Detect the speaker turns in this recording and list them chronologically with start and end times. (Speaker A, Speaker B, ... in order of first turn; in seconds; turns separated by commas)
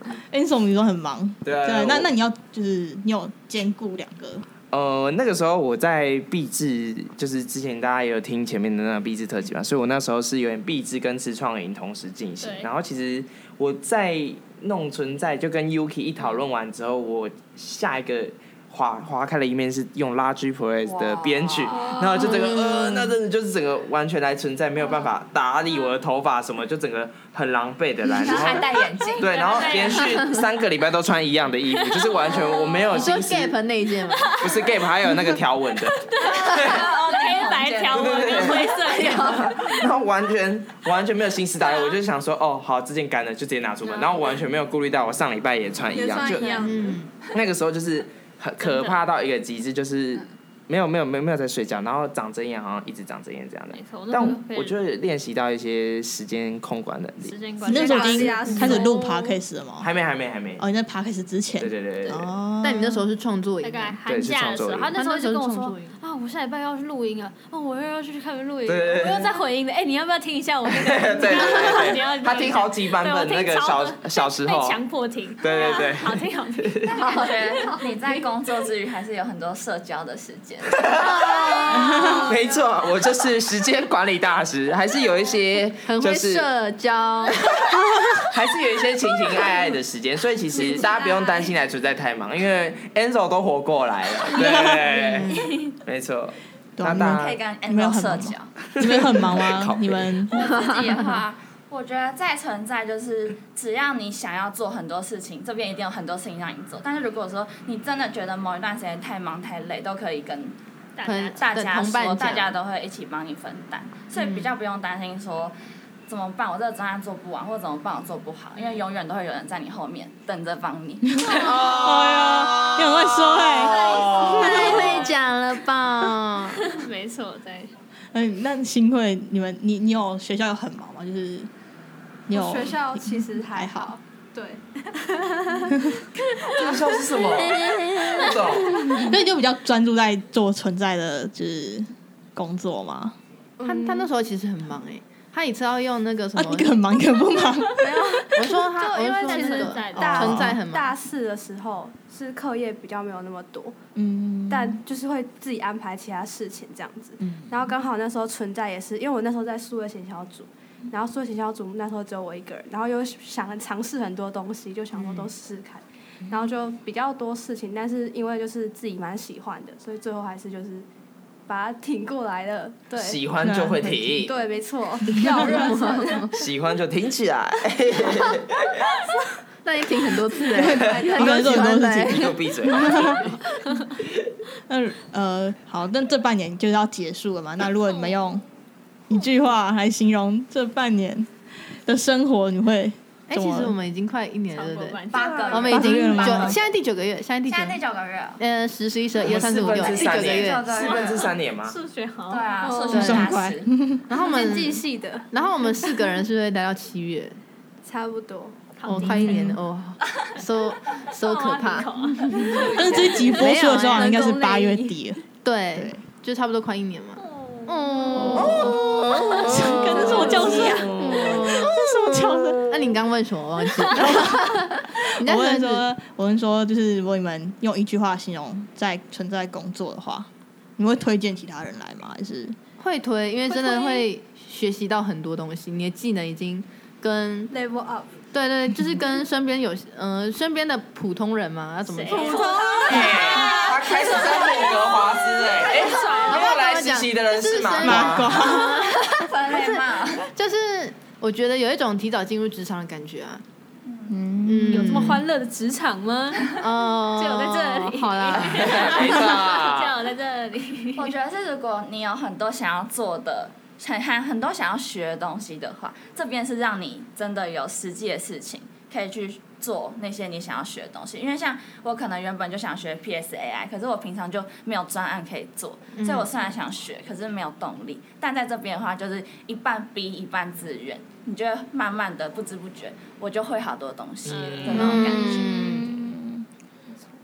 Speaker A: 0.3-4.5, Speaker B: 1.4-2.1, Speaker B: 4.7-33.5, Speaker C: 12.4-12.7, Speaker D: 20.8-21.8, Speaker C: 21.7-22.4, Speaker E: 22.2-23.1, Speaker D: 28.1-29.9, Speaker C: 29.3-30.2, Speaker C: 31.7-33.1, Speaker E: 32.9-34.4, Speaker C: 34.1-35.1, Speaker B: 34.4-36.9, Speaker C: 36.0-39.8, Speaker D: 36.2-39.1, Speaker B: 37.9-46.6, Speaker F: 45.9-47.0, Speaker E: 46.6-47.1, Speaker B: 47.3-57.4, Speaker C: 48.6-49.0, Speaker C: 53.7-54.8, Speaker C: 57.2-58.9, Speaker F: 57.6-59.4, Speaker A: 57.6-59.9, Speaker B: 59.8-60.6, Speaker A: 60.6-63.1, Speaker B: 61.6-62.3, Speaker E: 62.6-64.0, Speaker C: 63.6-77.7, Speaker B: 64.1-64.9, Speaker E: 64.9-65.9, Speaker B: 68.7-69.4, Speaker B: 70.7-74.8, Speaker B: 75.4-77.0, Speaker D: 76.9-82.1, Speaker E: 77.0-77.3, Speaker B: 80.7-86.5, Speaker E: 81.7-82.1, Speaker E: 85.8-87.5, Speaker B: 88.2-97.4, Speaker C: 94.3-95.7, Speaker E: 94.5-95.6, Speaker A: 96.8-100.3, Speaker D: 97.0-98.5, Speaker B: 98.7-100.3, Speaker D: 100.3-110.6, Speaker C: 111.0-111.4, Speaker E: 111.0-112.5, Speaker D: 111.4-115.5, Speaker D: 116.1-121.9, Speaker C: 118.6-118.8, Speaker A: 121.2-124.2, Speaker C: 121.3-121.5, Speaker B: 121.4-124.6, Speaker D: 123.6-124.4, Speaker F: 123.8-124.1, Speaker C: 124.0-125.1, Speaker E: 124.2-126.7, Speaker C: 126.6-127.7, Speaker A: 128.1-131.5, Speaker A: 132.3-133.9, Speaker F: 132.3-135.9, Speaker A: 135.7-136.0, Speaker F: 136.4-136.8, Speaker B: 136.5-139.0, Speaker A: 138.9-143.2, Speaker F: 143.6-144.1, Speaker E: 143.6-146.8, Speaker A: 146.4-148.2, Speaker F: 147.8-153.8, Speaker E: 148.3-150.9, Speaker C: 148.8-150.3, Speaker A: 149.9-150.6, Speaker A: 153.9-154.8, Speaker F: 154.5-170.9, Speaker F: 171.5-173.2, Speaker B: 172.9-174.3, Speaker A: 173.4-174.2, Speaker F: 174.1-176.3, Speaker E: 175.4-176.3, Speaker B: 176.3-178.9, Speaker E: 179.6-183.3, Speaker A: 180.6-183.2, Speaker F: 180.7-181.8, Speaker B: 182.1-183.3, Speaker A: 184.7-188.4, Speaker C: 187.9-188.1, Speaker A: 189.1-191.3, Speaker A: 191.8-193.8, Speaker E: 193.3-197.8, Speaker C: 194.5-195.7, Speaker D: 195.1-196.6, Speaker A: 195.7-196.6, Speaker D: 197.5-198.4, Speaker E: 198.4-200.7, Speaker B: 199.2-201.8, Speaker D: 199.4-201.4, Speaker C: 201.5-202.7, Speaker D: 202.3-203.7, Speaker F: 202.6-203.4, Speaker E: 202.9-203.3, Speaker A: 202.9-204.1, Speaker E: 204.1-207.4, Speaker F: 204.1-206.0, Speaker F: 207.8-208.7, Speaker C: 208.8-209.4, Speaker E: 208.8-214.3, Speaker A: 209.0-209.6, Speaker C: 211.1-214.2, Speaker D: 212.6-213.2, Speaker A: 212.6-215.2, Speaker F: 213.5-214.9, Speaker E: 215.4-218.9, Speaker A: 215.8-216.0, Speaker C: 217.2-221.4, Speaker A: 218.3-218.8, Speaker B: 218.4-222.8, Speaker A: 219.4-222.6, Speaker E: 220.0-221.8, Speaker E: 222.7-224.6, Speaker A: 223.9-232.6, Speaker E: 225.2-225.8, Speaker E: 232.8-237.5, Speaker F: 237.5-238.1, Speaker E: 238.3-242.7, Speaker C: 241.9-244.8, Speaker F: 242.1-243.6, Speaker B: 242.8-248.4, Speaker D: 244.2-244.8, Speaker D: 245.5-245.8, Speaker C: 245.5-246.6, Speaker E: 246.3-253.4, Speaker A: 247.8-248.8, Speaker D: 249.0-250.3, Speaker D: 253.8-254.2, Speaker A: 254.1-255.1, Speaker E: 254.4-255.2, Speaker C: 254.7-256.6, Speaker E: 256.6-258.8, Speaker C: 257.1-261.1, Speaker B: 258.4-259.9, Speaker D: 260.9-285.8, Speaker E: 275.9-276.3, Speaker B: 284.3-284.9, Speaker C: 284.3-284.9, Speaker E: 284.7-285.9, Speaker A: 285.1-286.4